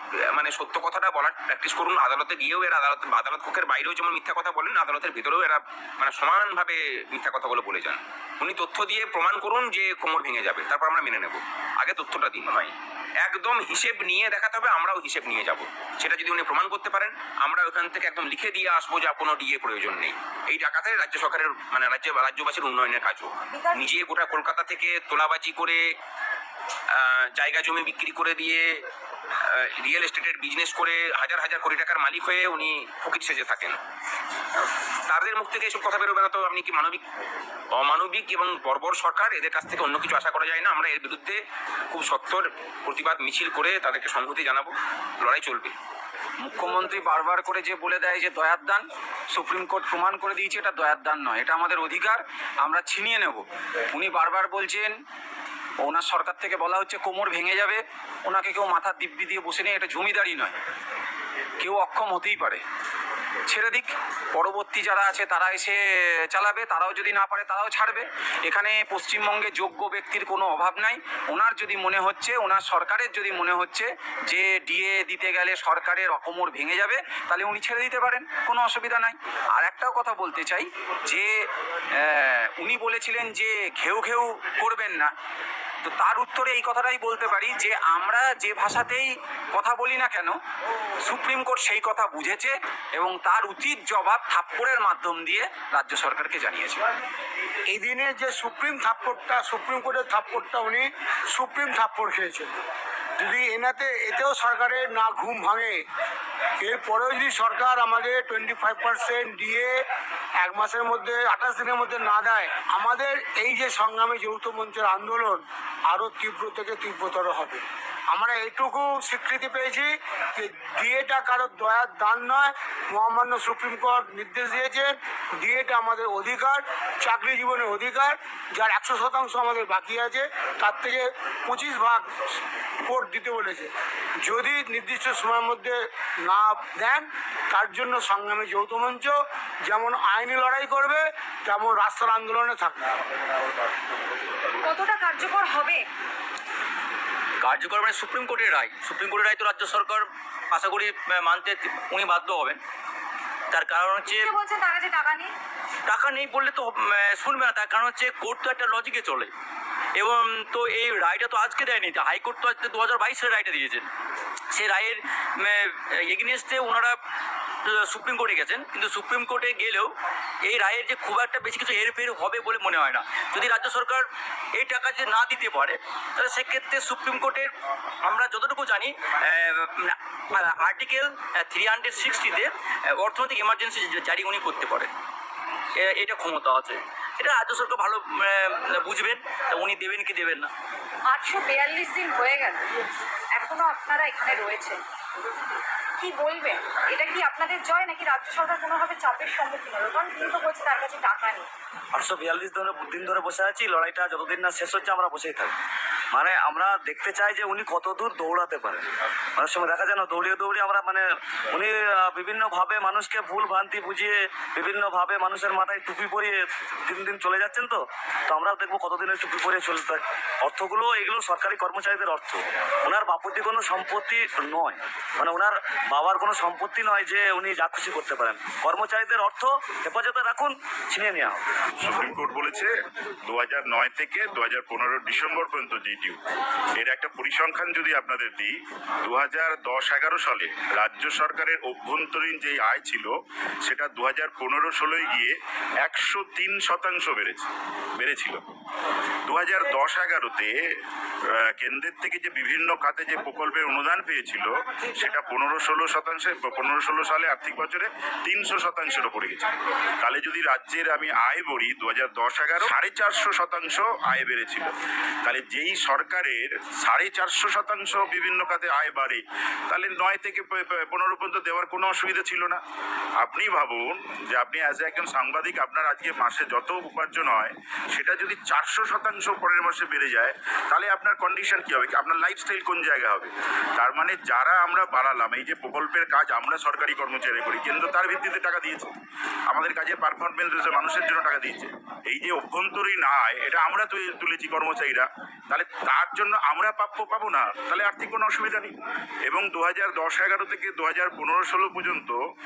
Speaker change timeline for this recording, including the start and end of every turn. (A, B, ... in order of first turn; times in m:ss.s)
0:00.3-0:25.8 A
0:23.5-0:23.9 B
0:26.9-0:28.7 A
0:29.4-0:33.8 A
0:34.6-0:37.0 A
0:37.7-0:45.7 A
0:46.4-0:54.9 C
0:55.8-1:00.5 C
1:01.6-1:02.6 C
1:03.5-1:21.4 C
1:22.0-1:25.1 C
1:25.8-1:30.4 C
1:31.0-1:36.8 C
1:37.7-1:42.5 D
1:43.2-1:45.8 D
1:46.6-1:49.7 D
1:50.4-2:12.0 D
2:12.9-2:13.7 D
2:14.2-2:19.1 D
2:19.7-2:22.8 D
2:24.6-2:25.8 B
2:27.4-2:32.6 E
2:33.5-2:34.3 E
2:34.1-2:35.3 B
2:35.9-2:39.3 E
2:39.9-2:43.9 E
2:44.5-2:47.0 E
2:47.6-2:57.5 E
2:58.0-3:04.9 E
3:05.7-3:10.5 E
3:11.1-3:12.6 B
3:13.3-3:14.8 B
3:16.0-3:21.5 B
3:21.9-3:25.5 F
3:26.1-3:51.5 F
3:51.8-3:52.7 G
3:53.2-3:56.2 G
3:56.8-4:03.1 G
4:03.6-4:08.4 G
4:09.2-4:10.5 G
4:11.3-4:19.5 G
4:20.0-4:24.7 G
4:25.2-4:32.6 G
4:33.2-4:48.9 G
4:49.5-4:58.7 G
4:59.3-5:02.2 G